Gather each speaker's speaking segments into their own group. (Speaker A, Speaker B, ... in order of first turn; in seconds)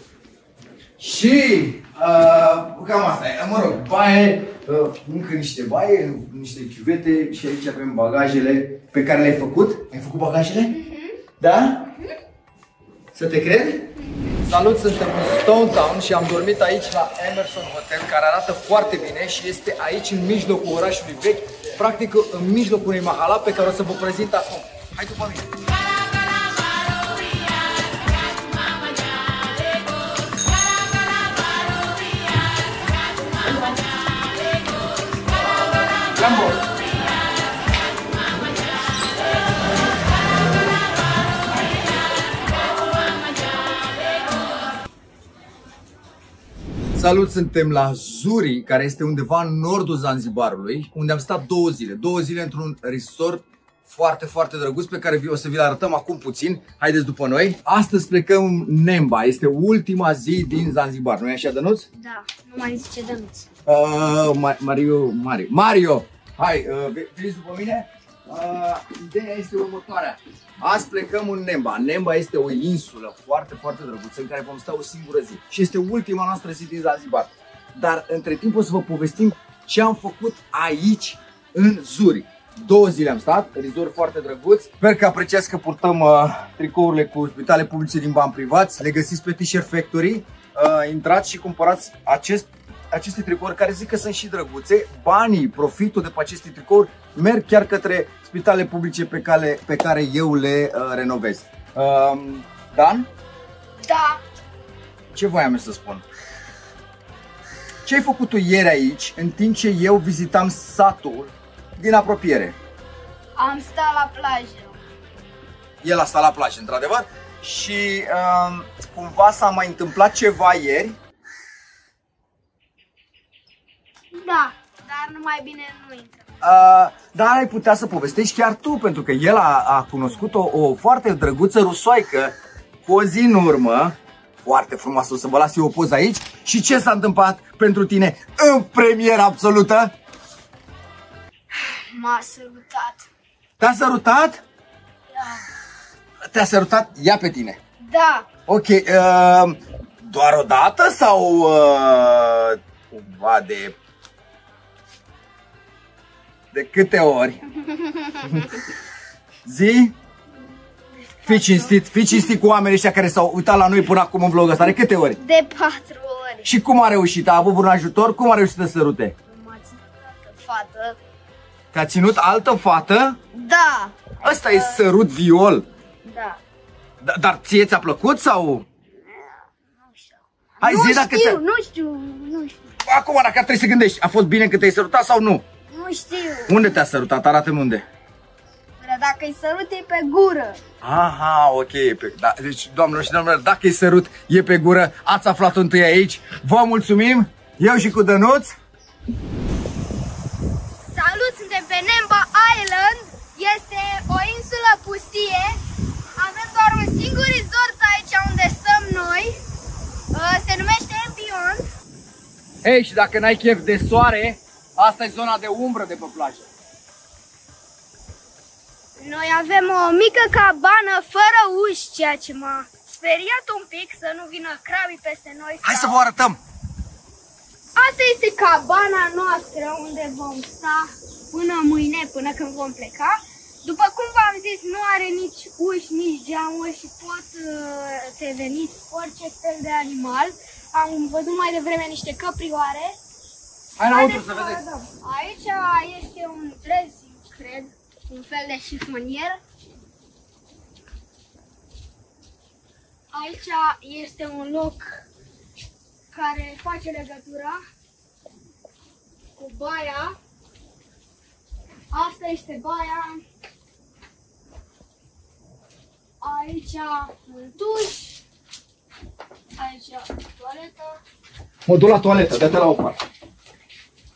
Speaker A: 1.0-10.8, 11.4-11.9, 13.1-25.5, 36.1-36.6, 47.0-61.9, 63.6-103.1, 105.1-106.0, 107.8-112.5, 115.8-121.0, 126.4-139.9, 143.6-144.4, 146.3-147.6, 148.5-153.8, 156.5-157.6, 158.2-158.6, 159.4-159.9, 161.2-165.2, 166.4-169.1, 171.7-173.2, 174.2-175.6, 177.0-178.7, 180.6-181.4, 182.8-185.4, 186.5-187.8, 190.8-198.5, 212.6-216.4, 225.6-226.4, 243.8-244.6, 271.7-273.0
Speaker B: 10.8-11.2, 14.1-14.3, 61.9-63.5, 103.8-104.2, 113.4-114.8, 124.1-126.2, 141.5-143.1, 145.1-145.4, 147.8-148.3, 157.7-158.4, 161.1-161.8, 165.2-166.5, 169.3-171.0, 173.3-174.9, 176.0-176.4, 179.1-182.6, 185.7-186.7, 188.8-190.6, 200.9-205.6, 206.2-209.4, 210.1-211.6, 219.0-226.0, 227.8-243.0, 243.8-249.4, 253.1-255.1, 256.1-257.6, 259.4-260.2, 261.9-263.2, 266.2-268.2, 269.6-271.0